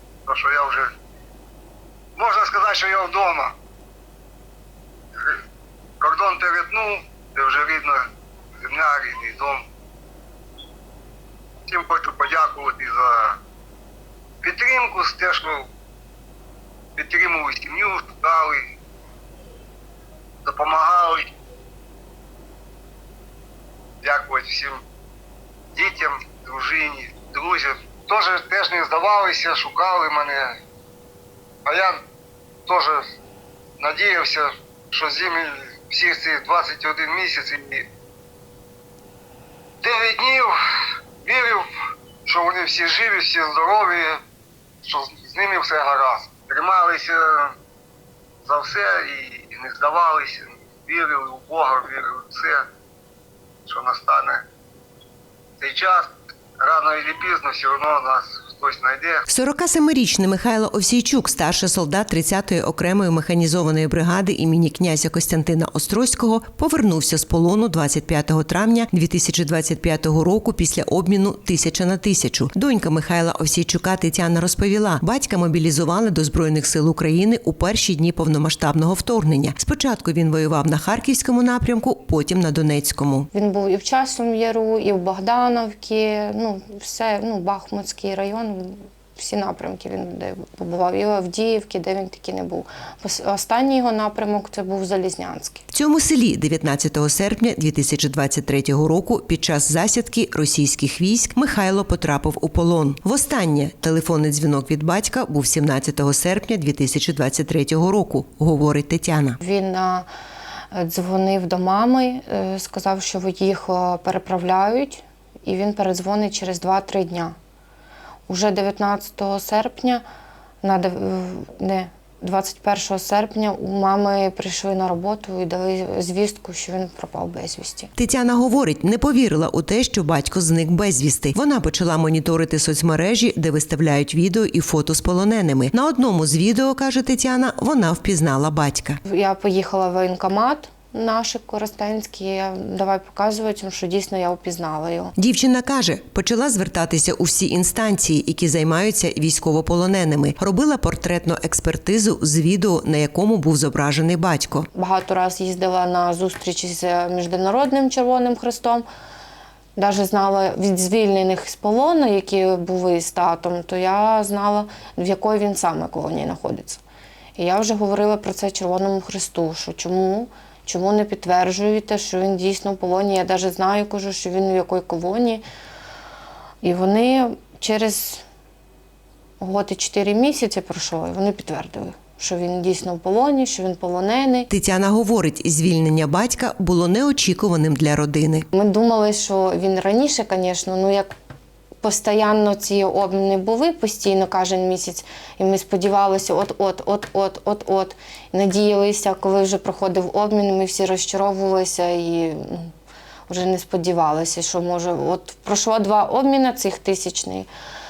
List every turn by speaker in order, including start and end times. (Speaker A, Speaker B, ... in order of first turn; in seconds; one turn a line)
Speaker A: 0.2-0.9
Speaker A: 2.1-3.5
Speaker A: 5.2-5.4
Speaker A: 6.0-8.0
Speaker A: 8.6-9.6
Speaker A: 11.7-13.4
Speaker A: 14.4-15.6
Speaker A: 16.9-18.6
Speaker A: 20.4-21.3
Speaker A: 24.0-24.8
Speaker A: 25.7-30.6
Speaker A: 31.6-32.0
Speaker A: 32.6-33.1
Speaker A: 33.8-37.9
Speaker A: 39.8-40.6
Speaker A: 41.2-41.7
Speaker A: 42.2-44.2
Speaker A: 44.8-47.5
Speaker A: 48.4-52.6
Speaker A: 53.6-54.4
Speaker A: 55.6-59.2
Speaker B: 59.3-83.3
Speaker C: 83.3-95.6
Speaker B: 95.7-109.4
Speaker C: 109.4-110.0
Speaker C: 110.7-117.3
Speaker C: 118.3-120.0
Speaker C: 120.6-127.9
Speaker B: 128.0-139.0
Speaker C: 139.1-145.1
Speaker B: 145.2-154.7
Speaker C: 154.7-158.8
Speaker C: 159.8-166.8
Speaker C: 167.3-175.4
Speaker C: 176.6-178.2
Speaker C: 179.4-184.5
Speaker B: 184.5-188.4
Speaker C: 188.5-191.1
Speaker C: 191.8-202.7
Speaker C: 203.3-207.5